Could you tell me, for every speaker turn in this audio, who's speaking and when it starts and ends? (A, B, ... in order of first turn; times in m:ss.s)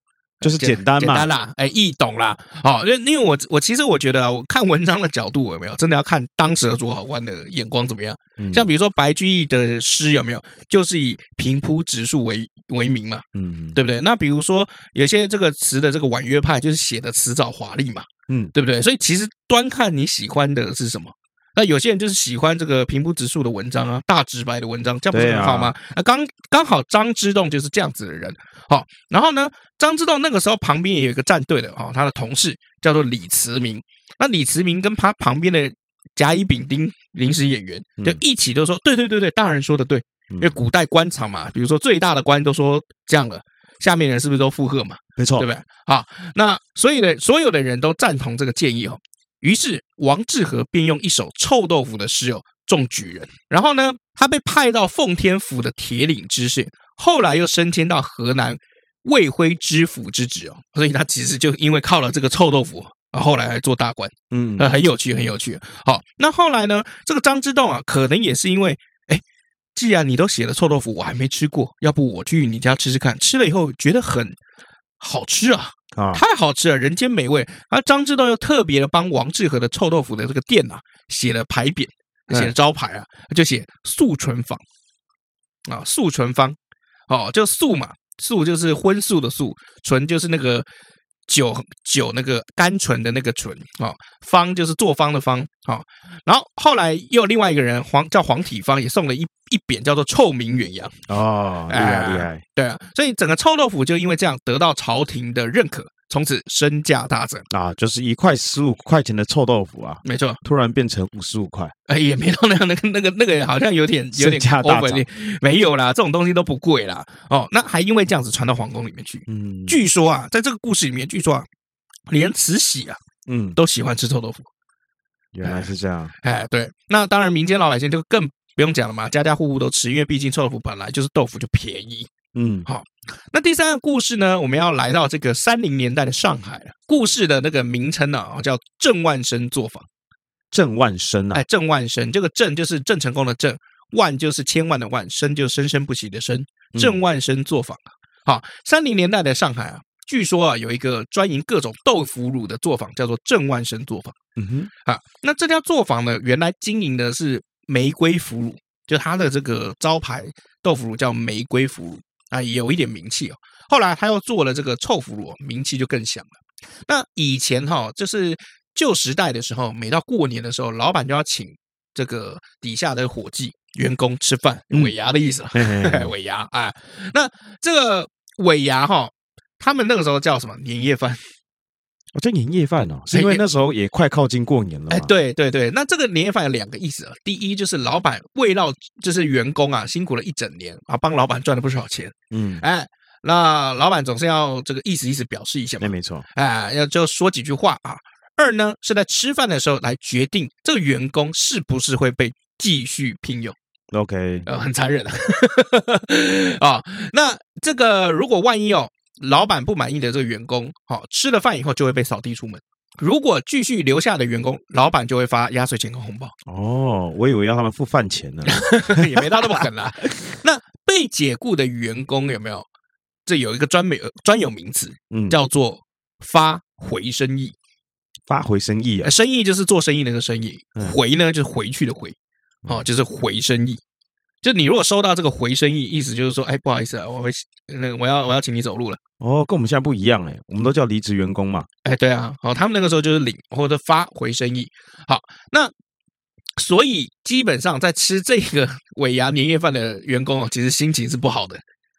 0:00.4-1:09.2 A
0:00.4-0:01.3 B
0:08.4-0:08.6 B
0:13.3-0:13.8 B
0:25.1-0:25.7 B
0:40.3-0:40.6 B
0:45.2-0:45.5 B
1:04.3-1:04.7 B
1:09.7-1:14.4 A
1:15.0-1:24.6 A
1:15.9-1:16.2 B
1:25.7-1:26.6 A
1:27.1-1:30.6 A
1:31.3-1:41.0 A
1:41.1-1:42.4 B
1:41.7-1:47.4 A
1:47.5-1:51.7 B
1:50.0-1:50.4 A
1:51.9-2:01.5 A
1:54.2-1:55.0 B
1:59.3-1:59.8 B
2:02.1-2:03.0 A
2:03.2-2:03.6 B
2:03.6-2:04.5 A
2:05.3-2:06.1 B
2:05.4-2:05.7 A
2:06.2-2:12.1 A
2:12.3-2:12.7 B
2:12.6-2:19.9 A
2:20.5-2:21.4 B
2:21.3-2:34.1 A
2:26.7-2:27.0 B
2:34.4-2:34.7 B
2:34.8-2:46.3 A
2:46.8-3:01.2 A
2:55.5-2:56.1 B
3:02.1-3:05.1 B
3:03.1-3:03.4 A
3:04.9-3:23.6 A
3:12.3-3:12.6 B
3:15.8-3:16.2 B
3:23.9-3:24.4 B
3:24.4-3:36.3 A
3:36.4-3:39.7 B
3:38.5-3:42.7 A
3:43.2-3:47.6 A
3:45.1-3:45.4 B
3:48.3-3:49.1 B
3:49.0-3:52.2 A
3:52.7-3:53.8 A
3:54.4-3:59.0 A
3:59.2-4:01.7 B
4:01.8-4:05.7 A
4:06.6-4:11.6 A